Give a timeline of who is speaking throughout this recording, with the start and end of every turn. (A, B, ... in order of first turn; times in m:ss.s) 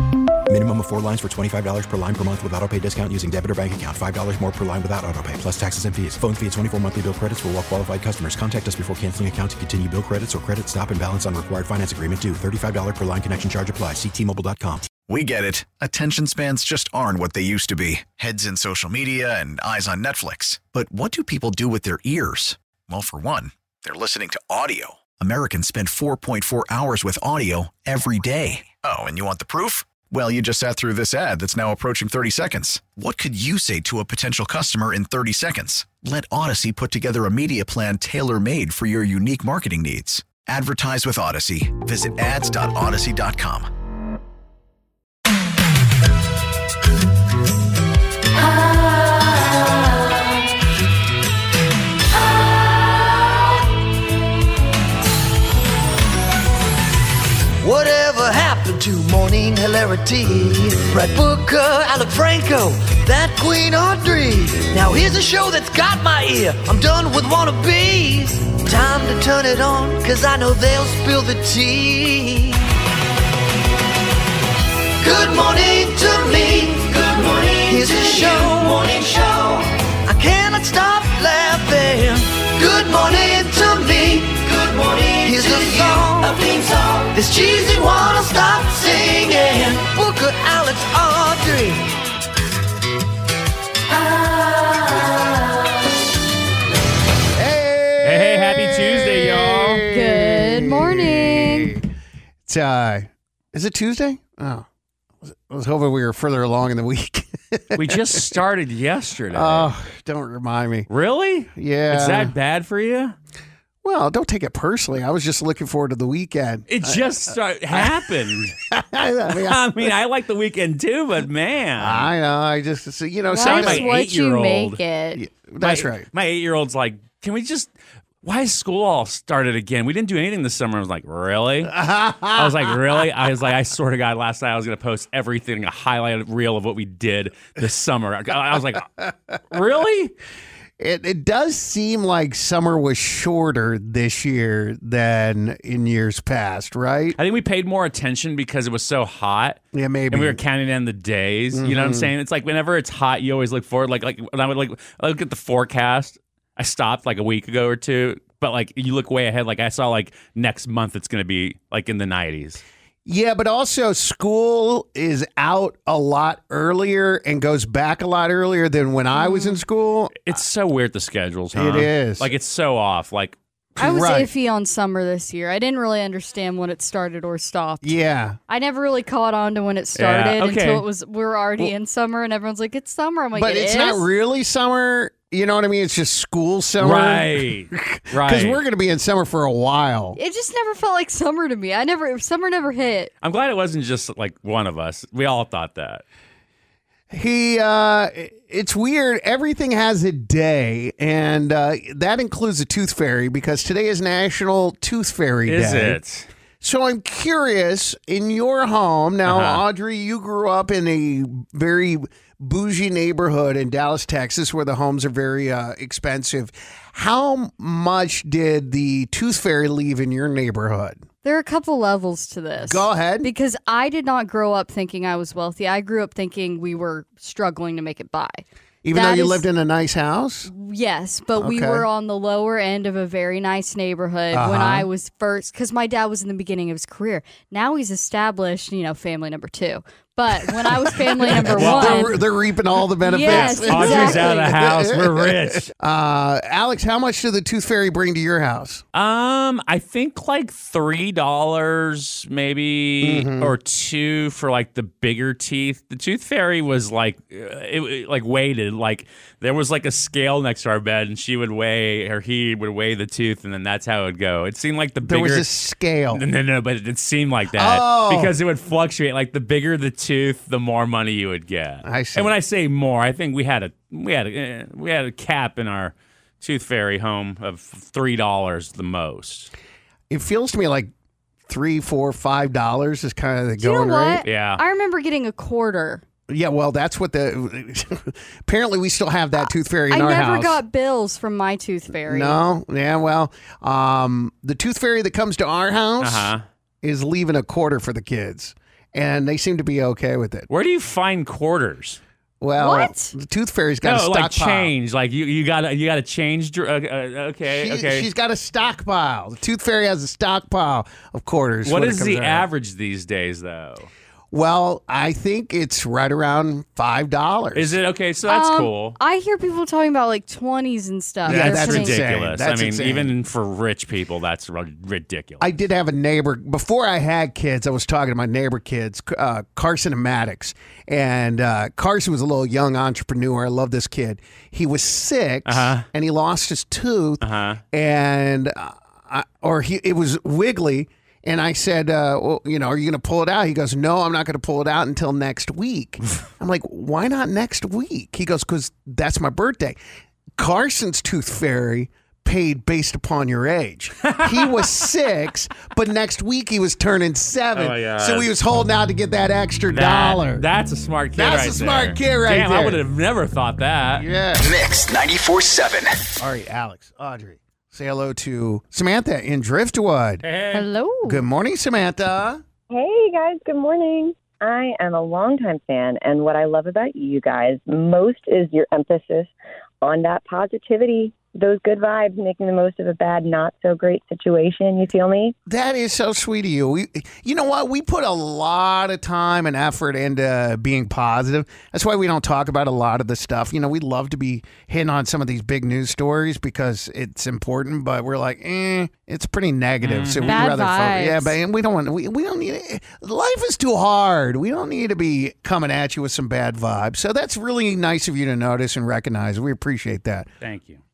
0:00.5-0:14.9 A
0:14.9-0:43.7 B
0:57.6-1:12.6 C
1:15.0-1:31.9 C
1:37.3-1:41.8 D
1:38.0-1:39.8 E
1:39.9-1:41.7 F
1:42.4-1:44.7 D
1:45.2-1:48.4 D
1:47.8-1:49.7 E
1:49.3-1:50.9 D
1:50.9-1:53.1 E
1:51.5-1:52.3 D
1:53.8-1:57.2 D
1:56.7-1:58.6 E
1:57.7-1:58.1 D
1:58.7-1:59.9 D
1:59.3-2:02.1 E
2:01.8-2:04.0 D
2:03.3-2:05.2 F
2:03.4-2:04.8 E
2:05.1-2:06.1 D
2:05.6-2:07.7 E
2:08.2-2:11.8 E
2:11.6-2:12.8 D
2:12.3-2:18.9 E
2:19.5-2:20.1 E
2:20.8-2:27.2 D
2:27.2-2:29.6 E
2:29.7-2:30.4 D
2:30.1-2:42.6 E
2:31.5-2:32.1 D
2:43.0-2:50.2 D
2:49.1-2:49.6 F
2:50.2-2:53.4 E
2:51.5-2:52.3 D
2:53.8-2:54.3 D
2:53.8-2:57.9 F
2:57.8-2:58.4 D
2:58.5-3:04.1 F
3:00.0-3:00.8 E
3:03.3-3:10.2 D
3:06.8-3:08.6 E
3:10.2-3:13.1 F
3:13.2-3:16.0 E
3:17.1-3:26.0 D
3:25.4-3:26.3 E
3:26.6-3:41.0 D
3:29.3-3:29.6 E
3:41.2-3:49.4 F
3:42.6-3:43.3 D
3:48.8-3:50.5 D
3:50.5-4:02.2 F
3:51.4-3:51.9 D
3:54.3-3:54.9 D
4:00.9-4:08.8 D
4:01.4-4:02.2 E
4:03.0-4:04.5 F
4:03.2-4:05.7 E
4:08.9-4:25.4 E
4:13.0-4:13.6 D
4:25.0-4:26.2 D
4:26.1-4:39.5 E
4:27.5-4:28.4 D
4:31.8-4:32.3 D
4:40.1-4:40.9 D
4:41.5-4:44.2 D
4:43.6-4:46.0 F
4:44.2-4:44.6 E
4:46.3-4:50.6 D
4:49.4-4:52.4 F
4:52.0-5:00.5 D
4:56.0-4:56.4 E
5:00.5-5:02.0 E
5:02.4-5:04.7 D
5:02.6-5:03.1 F
5:03.8-5:08.1 E
5:07.4-5:12.5 D
5:11.6-5:13.9 E
5:14.3-5:17.8 D
5:17.5-5:19.0 E
5:18.3-5:22.0 F
5:21.2-5:23.1 D
5:21.2-5:25.5 E
5:25.4-5:49.8 D
5:35.4-5:35.8 E
5:37.2-5:37.6 E
5:50.4-6:00.5 D
5:54.1-5:54.7 E
5:57.5-5:58.3 E
5:59.7-6:04.0 E
6:01.1-6:02.8 D
6:03.9-6:04.6 D
6:04.5-6:06.0 B
6:06.2-6:10.2 D
6:10.2-6:10.7 E
6:10.5-6:11.2 F
6:11.0-6:12.4 D
6:12.7-6:25.4 G
6:25.5-6:50.3 D
6:39.8-6:40.4 E
6:40.2-6:41.4 F
6:50.4-6:50.8 E